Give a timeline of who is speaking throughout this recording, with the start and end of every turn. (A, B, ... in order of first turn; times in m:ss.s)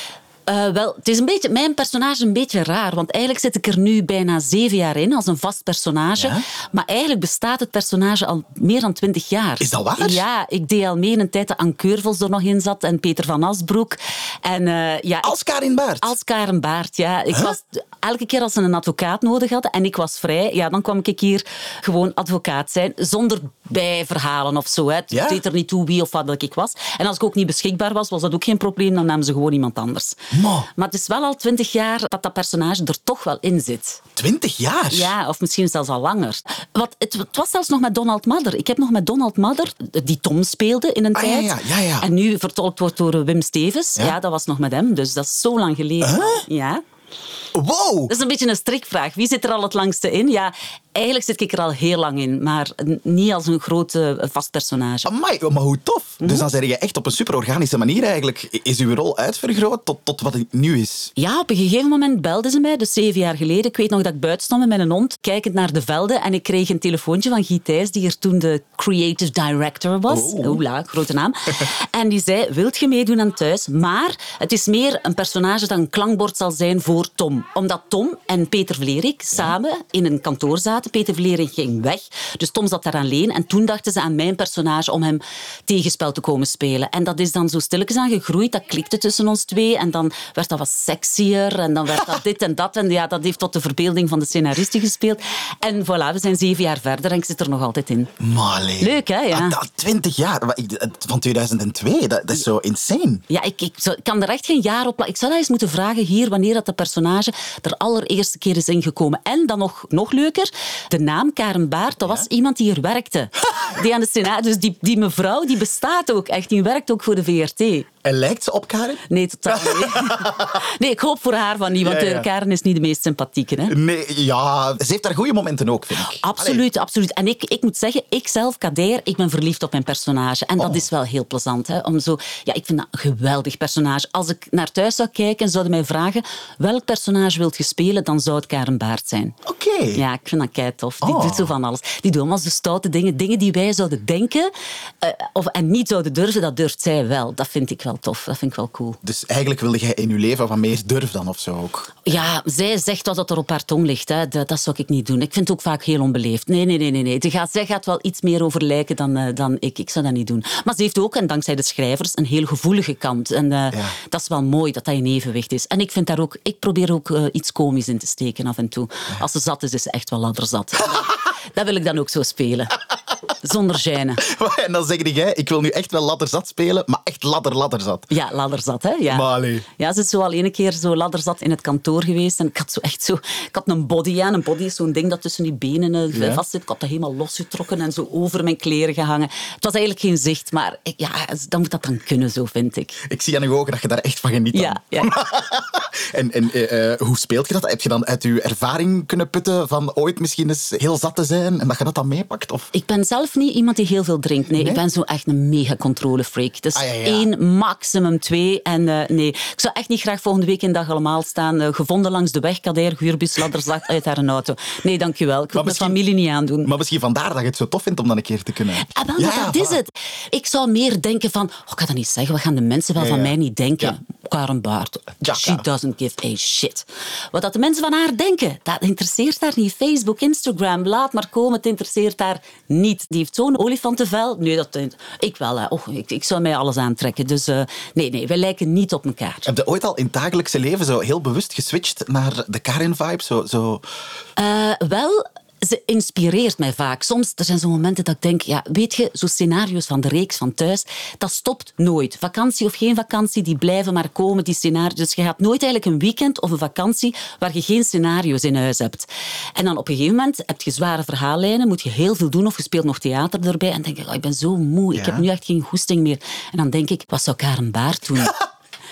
0:00.4-0:15.4 A
0:06.2-0:06.4 B
0:09.6-0:10.2 B
0:15.2-0:16.1 B
0:16.0-0:34.0 A
0:25.1-0:25.4 B
0:30.3-0:30.7 B
0:34.2-0:35.1 B
0:34.9-0:46.8 A
0:41.1-0:42.1 B
0:46.0-0:46.4 B
0:47.5-0:48.1 B
0:48.1-0:55.1 A
0:55.0-1:01.1 B
0:56.2-0:56.5 A
1:01.2-1:38.1 A
1:10.1-1:10.6 B
1:38.2-1:43.2 B
1:38.8-1:39.6 A
1:43.3-1:57.9 A
1:58.0-2:00.6 B
1:59.1-2:03.8 A
2:01.8-2:02.3 B
2:03.7-2:06.6 B
2:06.0-2:19.4 A
2:10.6-2:10.8 B
2:19.4-2:20.0 B
2:19.9-2:29.0 A
2:21.0-2:21.5 B
2:29.0-2:32.0 B
2:32.0-2:52.8 A
2:53.4-2:54.2 A
2:54.2-2:58.1 B
2:58.1-3:13.0 A
2:59.1-2:59.6 B
3:06.1-3:06.4 B
3:13.0-3:22.7 B
3:14.5-3:15.1 A
3:22.7-3:36.7 A
3:24.5-3:24.8 B
3:26.7-3:27.3 B
3:35.5-3:36.0 B
3:36.6-3:39.8 B
3:38.8-3:59.5 A
3:43.0-3:44.0 B
3:45.2-3:45.6 B
3:59.4-4:03.8 B
4:04.4-4:28.4 A
4:24.9-4:25.2 B